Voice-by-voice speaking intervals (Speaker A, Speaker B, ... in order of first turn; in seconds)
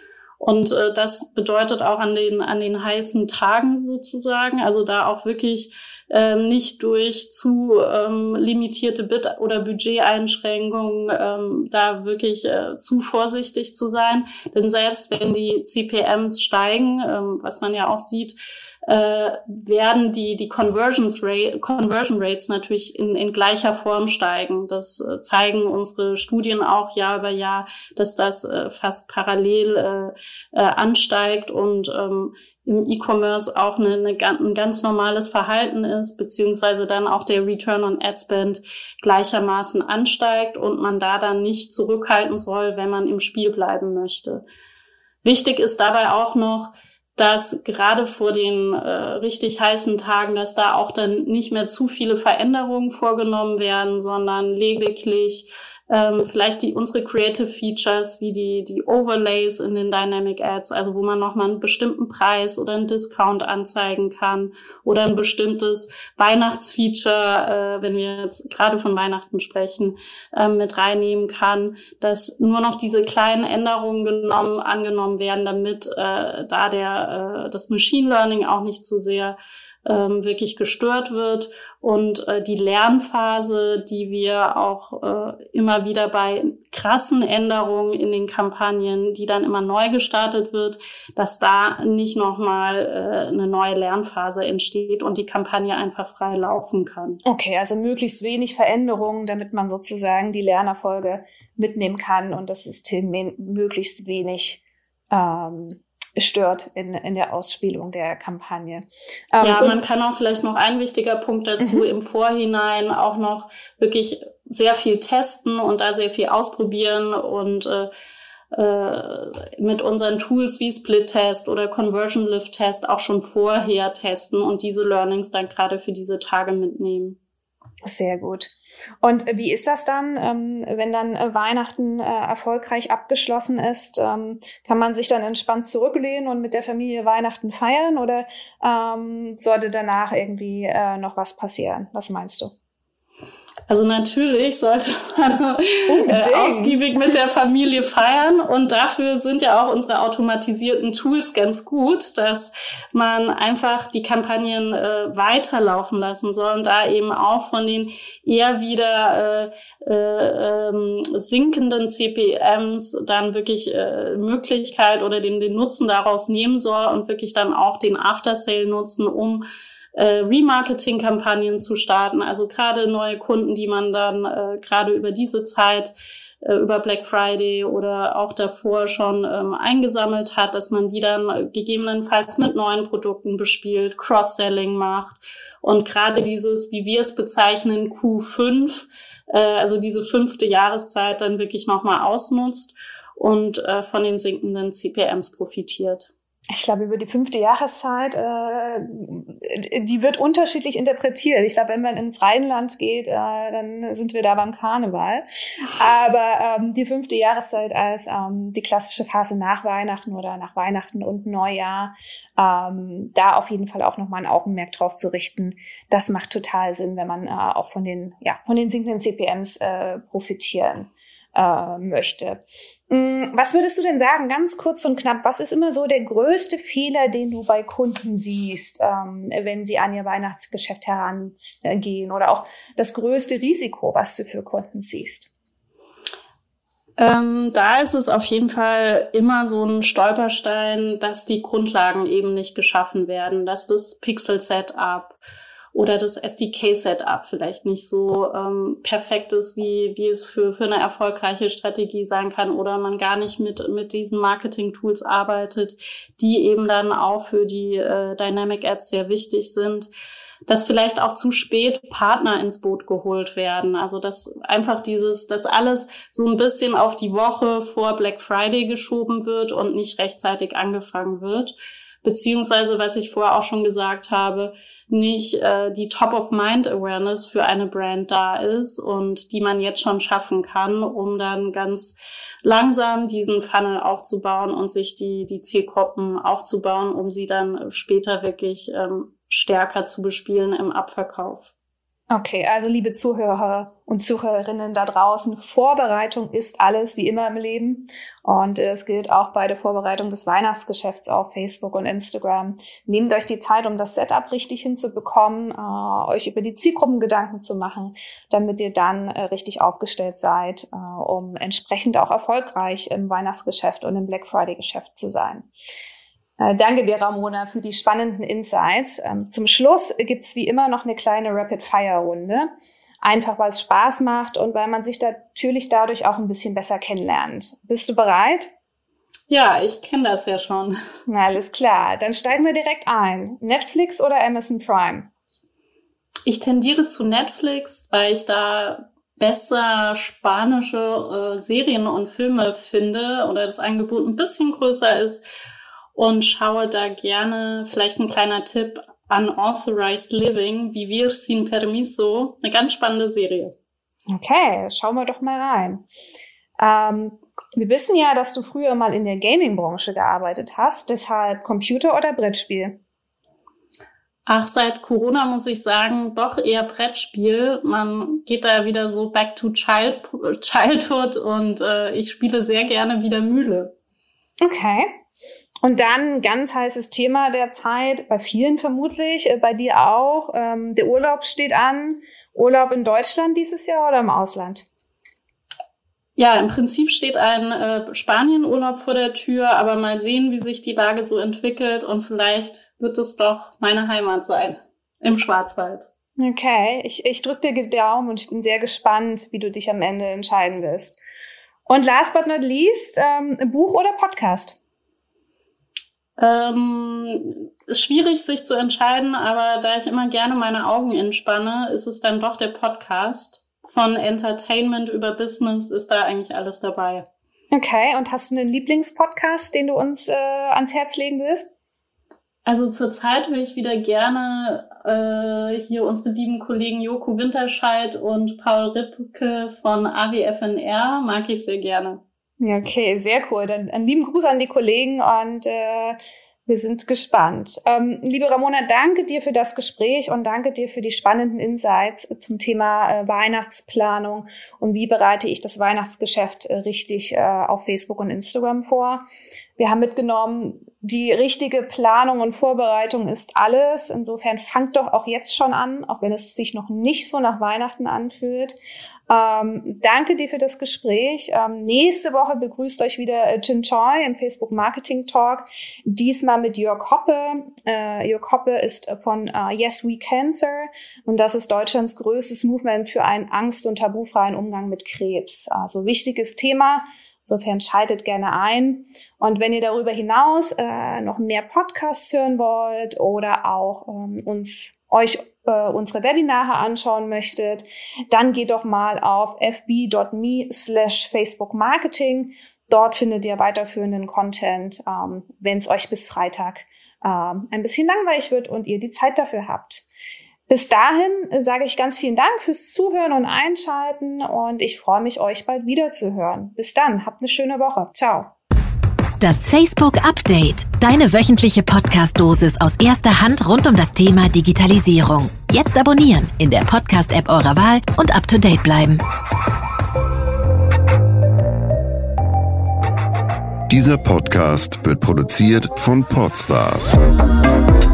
Speaker A: 0.4-18.4, 18.9-44.4, 45.2-97.2, 109.4-117.9, 118.5-127.2, 143.7-169.4, 170.0-196.1, 237.0-245.2, 245.7-259.9, 260.5-291.5, 329.3-330.8, 336.3-345.2, 345.9-353.5, 364.3-373.7, 386.2-395.9, 406.2-417.1, 422.5-432.0
Speaker B: 97.2-104.6, 105.1-109.8, 111.6-111.9, 127.8-142.5, 145.9-147.1, 196.5-205.2, 205.8-235.3, 292.1-315.5, 316.4-322.5, 323.0-328.5, 331.1-335.1, 354.1-355.8, 356.6-362.8, 374.4-375.0, 375.6-384.7, 396.2-401.0, 401.7-404.6, 417.5-421.5, 432.4-449.0, 449.6-458.6, 459.1-499.9, 500.5-508.3
Speaker C: 509.2-519.0
Speaker D: 523.7-527.0